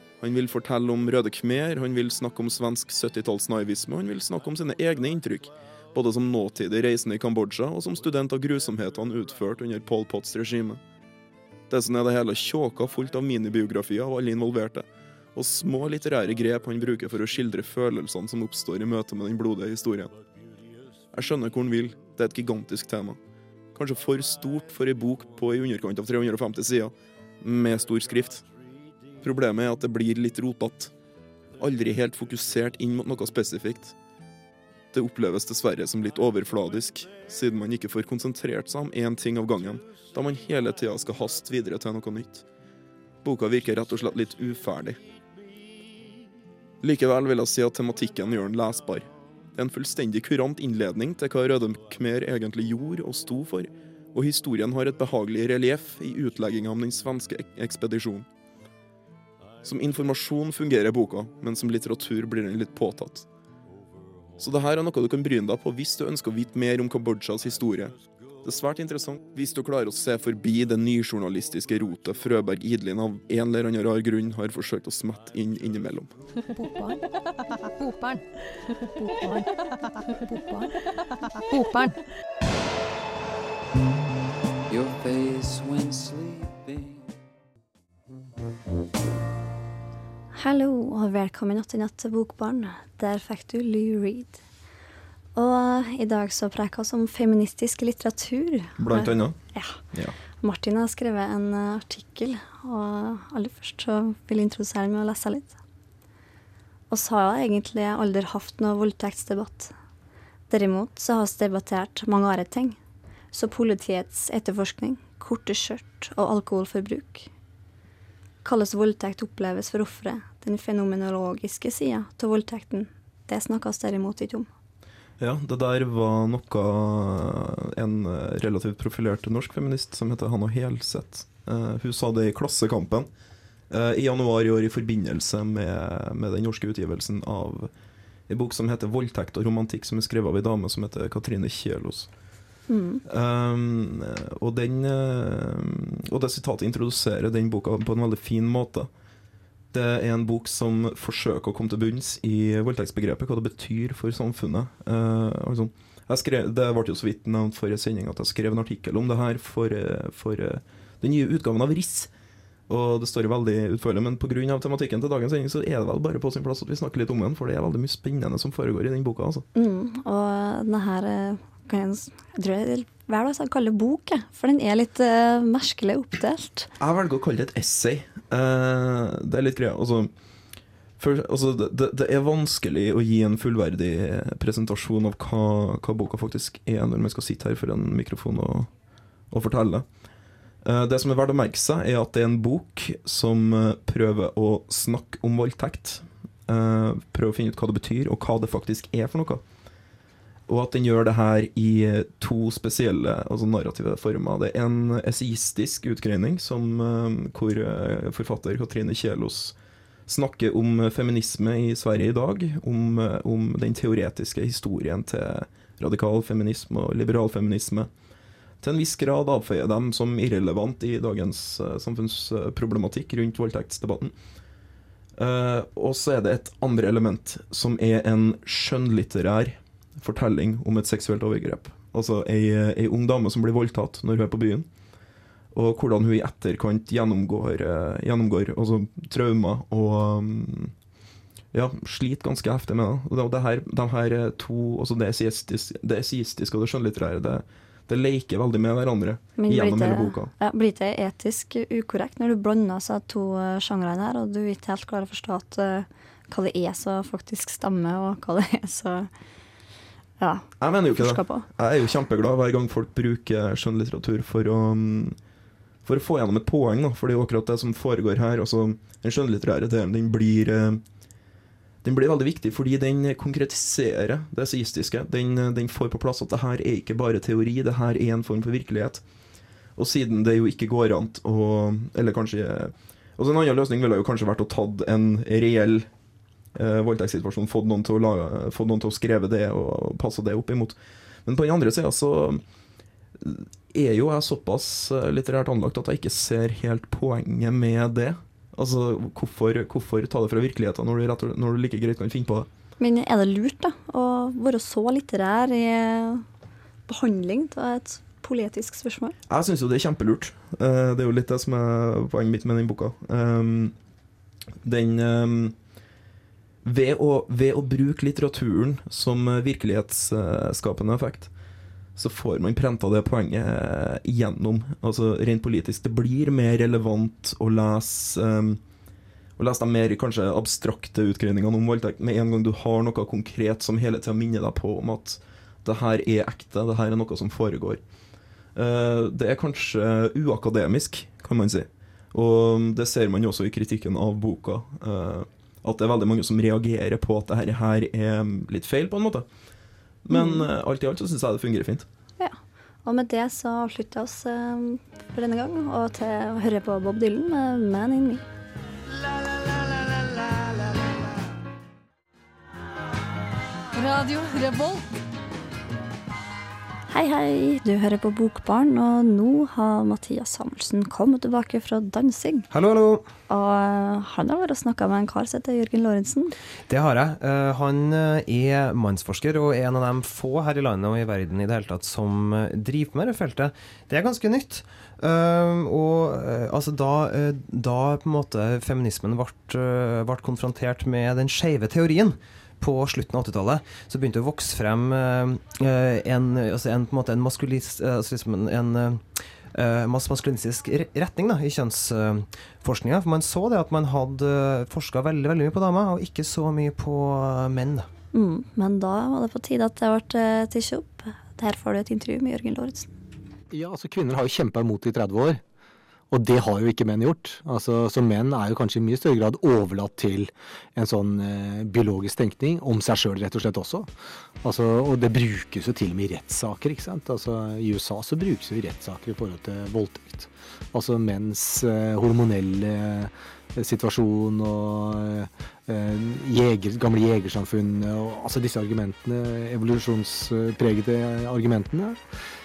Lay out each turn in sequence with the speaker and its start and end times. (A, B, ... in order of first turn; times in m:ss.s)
0:00.2-0:10.8 A
0:11.7-0:20.2 A
0:21.1-0:23.2 A
0:23.7-0:28.4 A
0:29.2-0:30.9 A
0:31.6-0:34.0 A
0:34.9-0:42.4 A
0:43.2-0:45.0 A
0:46.8-0:58.3 A
0:59.6-1:03.3 A
1:04.4-1:16.1 A
1:16.5-1:17.0 B
1:17.8-1:18.2 B
1:19.0-1:19.5 B
1:20.2-1:20.8 B
1:21.5-1:22.0 B
1:24.7-1:27.0 C
1:30.3-1:34.4 D
1:35.4-1:39.8 D
1:38.8-1:39.4 A
1:40.4-1:45.6 D
1:46.9-1:49.7 D
1:50.5-1:52.8 D
1:53.3-1:57.3 D
1:58.4-2:04.5 D
2:05.2-2:13.1 A
2:13.7-2:17.7 A
2:18.3-2:22.1 A
2:22.7-2:23.0 D
2:23.1-2:28.9 A
2:29.7-2:42.1 A
2:42.7-2:49.5 A
2:49.6-2:56.7 D
2:56.8-3:00.1 A
3:01.0-3:08.7 A
3:09.3-3:09.9 A
3:10.6-3:19.4 A
3:20.5-3:29.6 A
3:30.1-3:37.9 A
3:38.6-3:44.1 A
3:45.2-3:54.7 A
3:55.5-4:00.7 A
4:01.5-4:10.3 A
4:09.4-4:19.1 D
4:20.2-4:21.5 D
4:20.6-4:25.2 A
4:25.8-4:30.8 A
4:31.8-4:39.0 A
4:39.8-4:45.9 A
4:46.5-4:52.4 A
4:53.2-5:02.5 A
5:02.8-5:06.2 D
5:06.9-5:09.2 D
5:09.3-5:13.8 A
5:14.6-5:15.6 A
5:16.6-5:21.3 A
5:22.0-5:28.6 A
5:29.4-5:37.8 A
5:38.6-5:49.3 A
5:50.0-5:51.9 A
5:50.1-5:50.5 D
5:52.2-5:58.2 D
6:03.7-6:05.0 B
6:06.9-6:12.5 D
6:12.5-6:13.1 E
6:13.3-6:16.3 D
6:16.7-6:47.9 E
6:48.1-6:52.9 D
6:53.5-6:55.4 F
6:56.1-7:03.9 F
7:04.4-7:22.0 F